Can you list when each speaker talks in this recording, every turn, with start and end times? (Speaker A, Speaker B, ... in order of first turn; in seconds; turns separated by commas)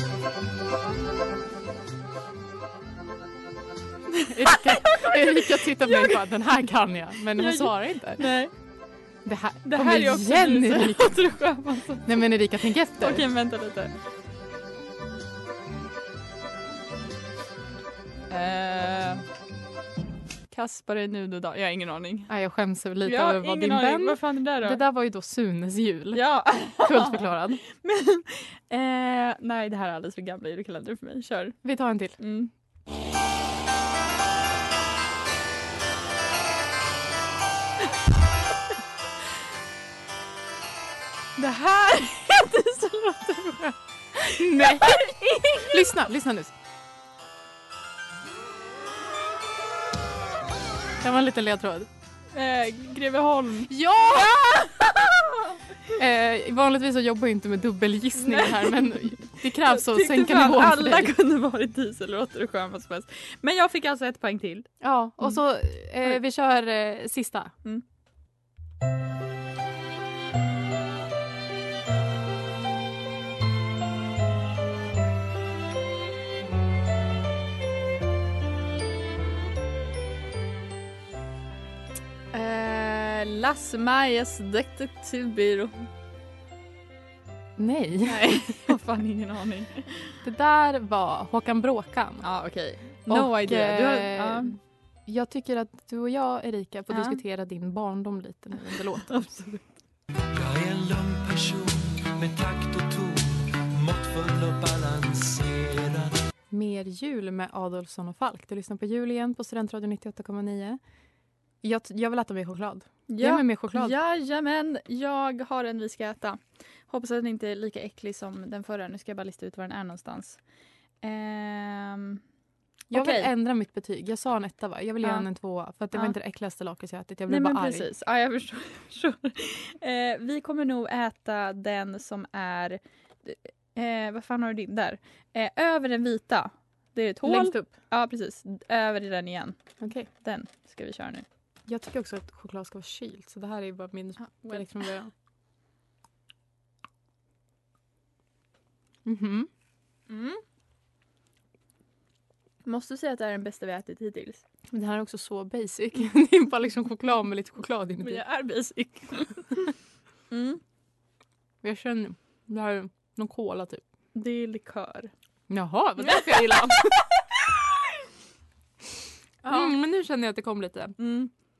Speaker A: 4.1-6.2, Speaker B: 4.3-8.3, Speaker A: 7.3-8.5, Speaker B: 9.2-11.2, Speaker A: 9.6-12.2, Speaker B: 12.0-13.2, Speaker A: 13.0-13.9, Speaker A: 18.3-19.2, Speaker A: 20.5-22.3, Speaker B: 22.3-27.6, Speaker A: 23.0-24.8, Speaker A: 26.1-31.6, Speaker B: 31.6-32.2, Speaker A: 32.2-32.5, Speaker A: 41.4-45.8, Speaker B: 44.1-46.5, Speaker B: 51.0-51.9, Speaker A: 52.3-53.7, Speaker B: 53.7-54.8, Speaker B: 55.9-61.1, Speaker A: 58.2-64.7, Speaker B: 64.8-67.5, Speaker A: 82.3-85.9, Speaker B: 87.6-88.5, Speaker A: 88.0-90.1, Speaker B: 90.2-92.3, Speaker A: 92.2-94.5, Speaker B: 93.1-99.3, Speaker A: 96.9-97.2, Speaker A: 98.7-99.6, Speaker C: 100.3-106.1, Speaker B: 106.5-110.8, Speaker B: 111.6-113.9, Speaker A: 113.1-120.4, Speaker A: 121.0-122.2, Speaker B: 122.9-127.9, Speaker A: 122.9-123.3, Speaker A: 127.3-139.6, Speaker B: 137.2-137.7, Speaker B: 139.8-140.1, Speaker A: 140.1-141.2, Speaker B: 141.7-145.1, Speaker A: 144.2-144.8, Speaker B: 149.0-149.5, Speaker A: 150.1-150.4, Speaker A: 152.6-154.4, Speaker B: 154.7-158.2, Speaker A: 158.0-159.7, Speaker A: 160.3-160.6, Speaker B: 161.6-163.8, Speaker A: 164.1-165.1, Speaker B: 165.5-167.1, Speaker A: 166.0-166.5, Speaker A: 169.4-169.7, Speaker B: 169.5-170.9, Speaker A: 171.0-171.3